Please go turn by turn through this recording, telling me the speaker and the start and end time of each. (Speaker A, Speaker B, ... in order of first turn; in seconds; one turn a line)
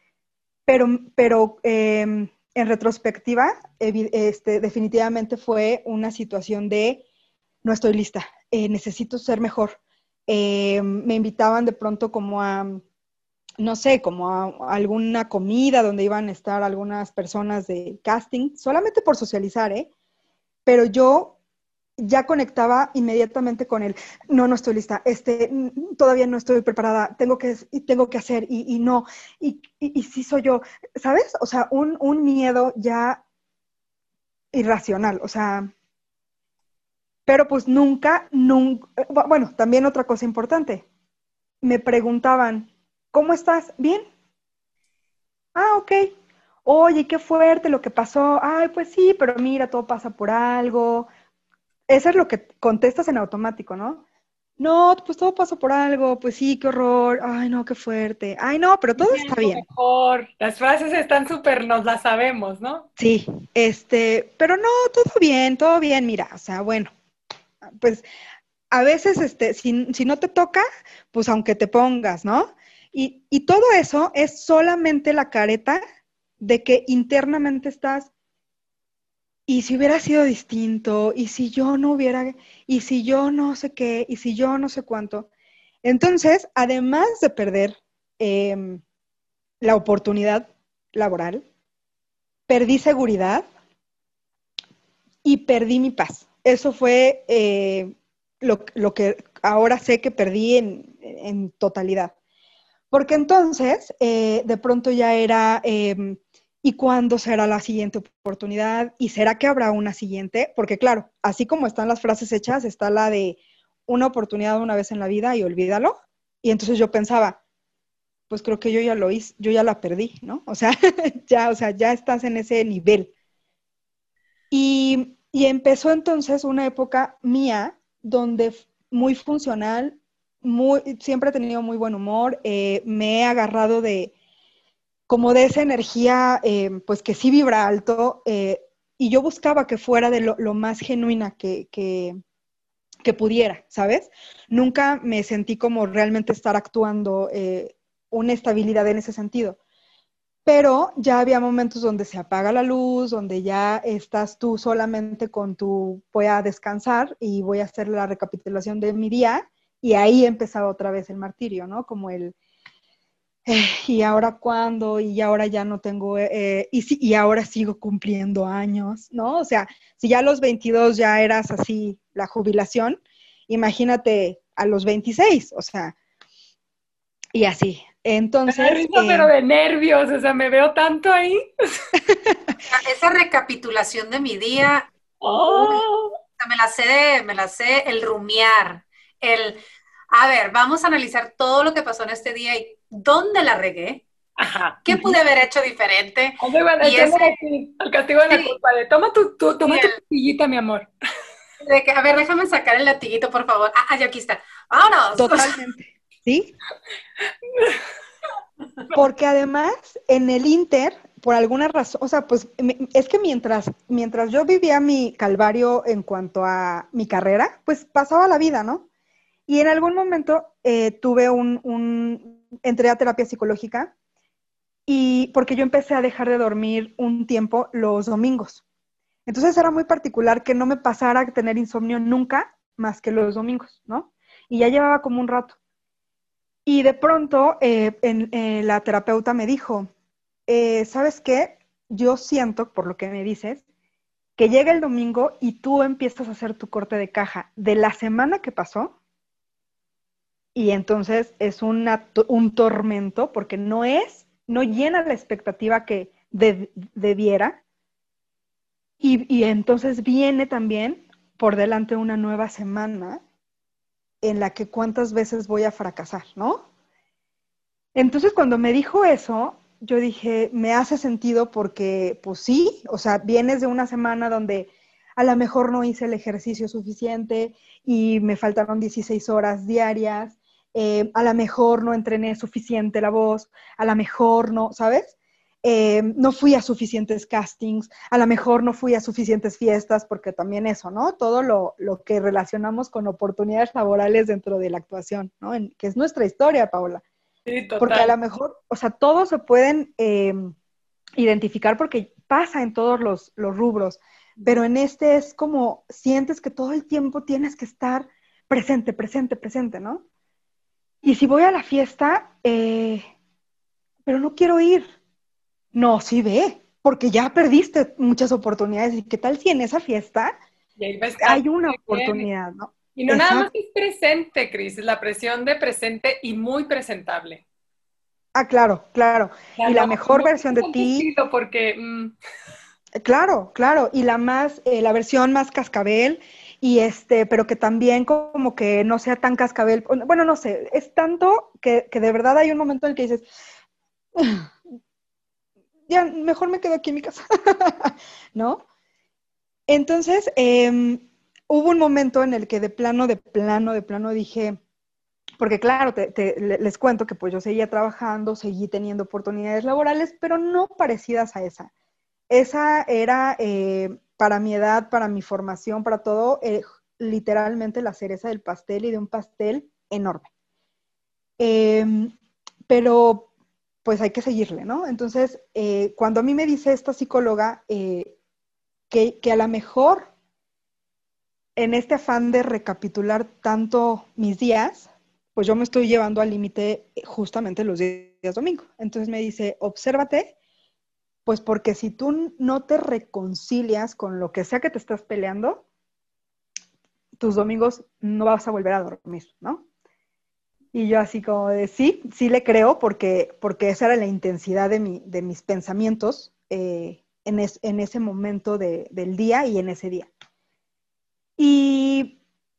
Speaker A: 0.7-7.0
Speaker A: 7.6-12.8
Speaker A: 13.6-19.9
Speaker A: 20.6-21.4
Speaker A: 22.0-33.2
Speaker A: 34.5-35.7
Speaker A: 37.2-40.8
Speaker A: 41.6-44.0
Speaker A: 45.5-46.1
Speaker A: 46.6-51.1
Speaker A: 51.9-54.0
Speaker A: 54.6-59.6
Speaker B: 59.0-62.9
Speaker A: 63.0-66.9
Speaker A: 67.6-68.0
Speaker A: 68.7-75.8
Speaker A: 76.4-78.1
Speaker A: 79.5-85.3
Speaker A: 85.8-88.8
Speaker A: 89.6-91.4
Speaker A: 92.5-93.5
Speaker A: 95.2-102.1
Speaker A: 102.9-117.4
Speaker A: 118.3-123.1
Speaker A: 124.5-134.1
Speaker A: 135.1-142.2
Speaker A: 143.0-149.6
Speaker A: 150.4-162.3
Speaker A: 163.5-175.9
Speaker A: 177.3-179.3
Speaker B: 178.5-181.4
Speaker C: 182.7-184.9
Speaker B: 185.2-186.1
Speaker C: 185.5-185.8
Speaker C: 186.4-189.6
Speaker C: 190.1-194.0
Speaker B: 194.4-195.1
Speaker C: 194.8-197.4
Speaker B: 196.4-200.9
Speaker C: 198.3-198.6
Speaker C: 199.7-200.0
Speaker C: 201.6-205.5
Speaker A: 205.2-206.5
Speaker A: 208.9-218.8
Speaker A: 219.5-223.9
Speaker A: 224.9-228.6
Speaker A: 229.2-235.6
Speaker A: 236.7-239.9
Speaker A: 240.5-243.6
Speaker A: 244.4-248.9
Speaker A: 250.5-257.6
Speaker A: 259.0-263.2
Speaker A: 264.2-266.6
Speaker A: 267.9-297.0
Speaker B: 297.4-298.1
Speaker A: 297.8-300.5
Speaker A: 301.2-310.0
Speaker A: 311.0-313.0
Speaker A: 314.1-314.9
Speaker A: 315.7-320.3
Speaker B: 320.8-322.3
Speaker A: 321.2-323.5
Speaker B: 322.9-327.4
Speaker A: 328.3-331.1
Speaker B: 329.6-332.1
Speaker A: 333.0-343.3
Speaker A: 344.1-344.5
Speaker A: 345.9-348.6
Speaker A: 349.7-354.6
Speaker A: 355.4-361.7
Speaker A: 362.3-370.3
Speaker A: 371.4-372.1
Speaker A: 372.7-373.3
Speaker A: 373.8-378.1
Speaker A: 378.9-380.1
Speaker A: 381.6-390.3
Speaker A: 391.2-395.6
Speaker A: 397.2-399.6
Speaker A: 400.7-410.1
Speaker A: 411.4-412.2